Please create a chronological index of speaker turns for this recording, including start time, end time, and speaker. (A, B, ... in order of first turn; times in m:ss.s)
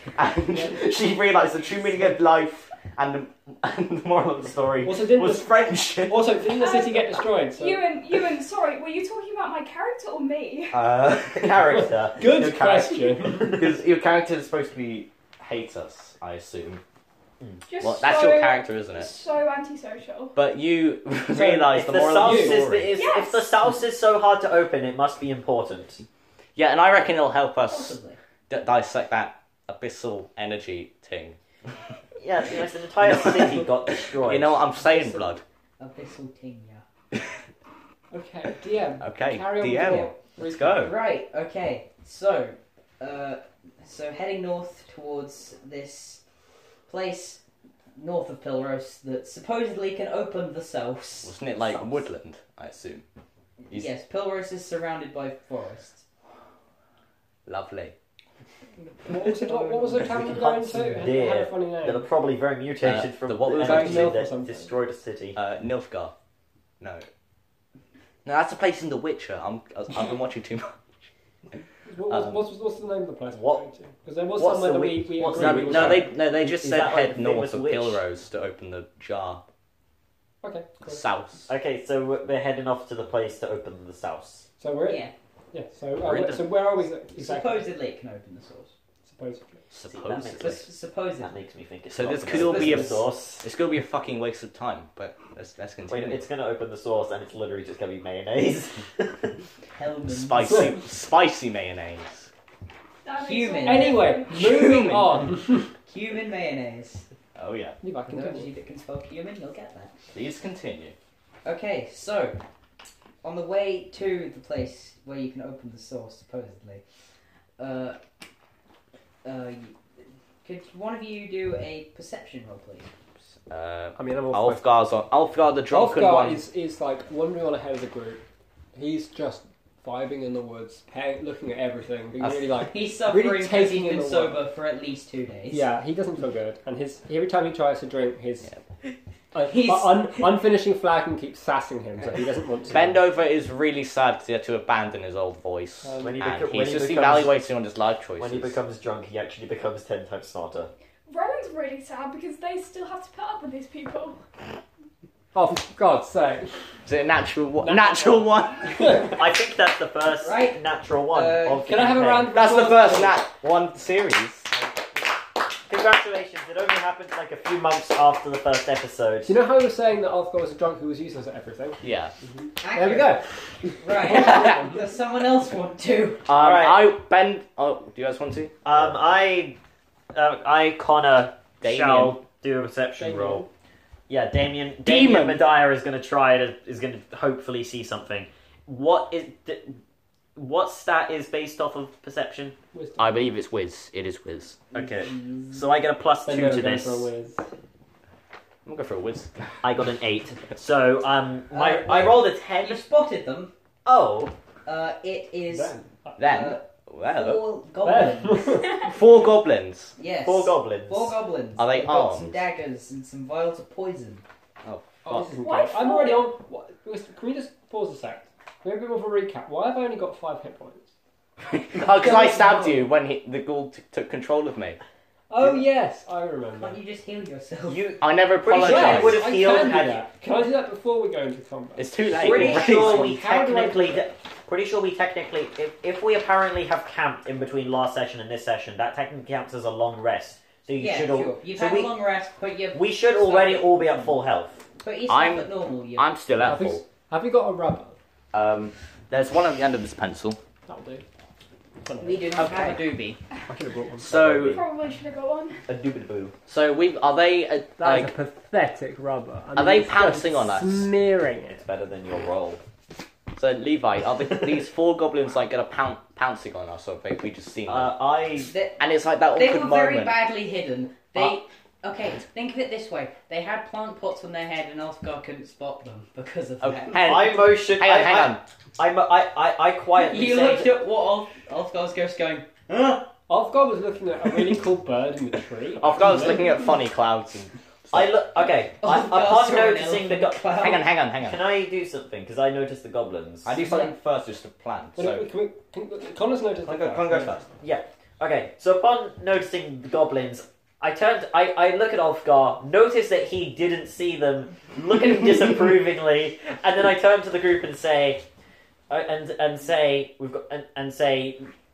0:00.1-0:06.3 A
0:04.8-0:07.8 B
0:06.4-0:10.8 C
0:10.7-0:16.8 A
0:11.3-0:12.2 D
0:12.1-0:13.6 B
0:17.7-0:20.3 C
0:17.8-0:19.1 A
0:20.3-0:23.0 A
0:21.3-0:26.0 D
0:22.2-0:22.6 B
0:22.9-0:23.5 C
0:26.6-0:28.0 A
0:27.7-0:28.2 E
0:28.5-0:31.4 A
0:32.2-0:34.7 D
0:33.0-0:35.4 A
0:35.8-0:36.8 E
0:38.1-0:40.8 B
0:39.0-0:40.9 A
0:40.7-0:46.2 E
0:46.9-0:47.4 E
0:48.0-0:51.4 E
0:51.2-0:53.0 A
0:53.7-0:56.0 E
0:57.4-0:57.9 A
0:59.0-1:02.1 B
1:00.1-1:00.6 A
1:00.4-1:05.4 D
1:02.8-1:04.2 A
1:03.5-1:04.7 B
1:05.3-1:06.1 A
1:06.8-1:07.0 A
1:08.2-1:11.1 A
1:11.8-1:16.1 B
1:12.1-1:12.4 A
1:13.3-1:13.6 D
1:14.4-1:18.0 D
1:15.3-1:19.4 A
1:20.4-1:21.0 B
1:20.8-1:21.5 A
1:21.5-1:24.4 D
1:24.6-1:27.7 B
1:24.8-1:25.1 E
1:26.0-1:26.5 A
1:27.2-1:28.7 E
1:29.1-1:29.6 B
1:29.7-1:30.6 A
1:29.9-1:33.4 D
1:30.4-1:31.3 E
1:31.9-1:36.2 A
1:32.3-1:32.8 E
1:35.9-1:39.3 D
1:39.8-1:40.8 E
1:40.0-1:42.3 A
1:43.0-1:45.0 C
1:43.2-1:44.2 E
1:43.6-1:45.7 B
1:44.3-1:45.3 A
1:45.8-1:47.0 E
1:47.4-1:47.8 A
1:47.8-1:48.5 B
1:48.0-1:49.9 E
1:50.1-1:50.9 A
1:51.4-1:52.4 E
1:53.2-1:56.8 E
1:57.6-1:58.0 E
1:59.2-1:59.8 E
2:00.4-2:02.9 E
2:03.5-2:06.4 A
2:04.0-2:04.6 B
2:05.7-2:14.4 B
2:12.5-2:15.6 E
2:15.5-2:18.5 B
2:19.3-2:23.0 B
2:19.5-2:20.3 E
2:22.7-2:28.5 A
2:25.8-2:26.2 B
2:26.0-2:27.3 D
2:28.2-2:30.7 D
2:31.1-2:34.2 C
2:35.3-2:36.5 B
2:36.8-2:38.7 A
2:37.6-2:39.2 B
2:39.0-2:42.4 D
2:40.1-2:41.7 E
2:41.6-2:43.2 B
2:42.3-2:44.5 A
2:45.6-2:49.3 D
2:49.2-2:51.8 B
2:51.8-2:52.1 A
2:52.6-2:53.2 E
2:52.7-2:54.7 B
2:53.8-2:56.2 E
2:54.0-2:54.6 A
2:56.2-2:58.5 A
2:56.3-2:57.0 D
2:58.6-2:59.6 D
3:00.1-3:03.5 D
3:01.6-3:02.2 A
3:03.0-3:03.5 B
3:04.1-3:09.8 D
3:04.8-3:05.4 A
3:10.4-3:12.6 D
3:12.7-3:13.1 B
3:13.0-3:14.6 A
3:14.7-3:17.1 D
3:15.1-3:15.5 E
3:16.2-3:17.4 B
3:18.6-3:19.6 A
3:19.6-3:22.8 D
3:21.5-3:23.5 E
3:23.8-3:24.3 D
3:24.6-3:28.7 E
3:25.5-3:26.2 B
3:26.2-3:27.4 A
3:27.8-3:28.9 B
3:28.8-3:30.0 A
3:30.0-3:34.2 E
3:30.2-3:31.2 D
3:31.6-3:32.4 A
3:34.6-3:35.2 A
3:35.0-3:40.9 B
3:35.3-3:36.3 C
3:41.5-3:44.8 A
3:42.0-3:42.8 B
3:45.3-3:46.8 B
3:46.6-3:47.9 E
3:47.7-3:50.1 D
3:48.0-3:49.3 A
3:48.5-3:51.9 B
3:51.8-3:53.2 A
3:52.1-4:01.9 D
3:52.2-3:53.8 E
3:53.3-3:53.8 B
4:00.8-4:03.8 E
4:02.7-4:04.6 D
4:04.8-4:06.6 E
4:05.1-4:06.8 A
4:06.4-4:08.0 B
4:08.3-4:10.4 A
4:10.6-4:11.0 B
4:11.8-4:12.2 B
4:12.0-4:13.1 E
4:12.4-4:13.2 A
4:13.5-4:14.2 B
4:14.0-4:14.6 A
4:14.2-4:14.5 D
4:14.4-4:15.6 C
4:15.7-4:16.3 D
4:16.5-4:18.1 A
4:17.8-4:21.6 B
4:19.5-4:20.9 A
4:21.5-4:22.6 D
4:23.3-4:27.9 A
4:27.7-4:28.5 D
4:28.5-4:37.1 E
4:28.8-4:30.2 A
4:36.6-4:38.4 A
4:37.0-4:40.8 D
4:39.9-4:43.1 E
4:43.3-4:46.5 B
4:45.7-4:48.1 A
4:47.9-4:50.5 D
4:48.8-4:50.9 E
4:50.5-4:51.4 A
4:51.2-4:53.6 D
4:53.4-4:55.3 A
4:53.6-4:53.9 E
4:55.0-4:57.4 B
4:56.6-4:57.4 A
4:57.6-5:08.2 D
5:08.9-5:11.5 D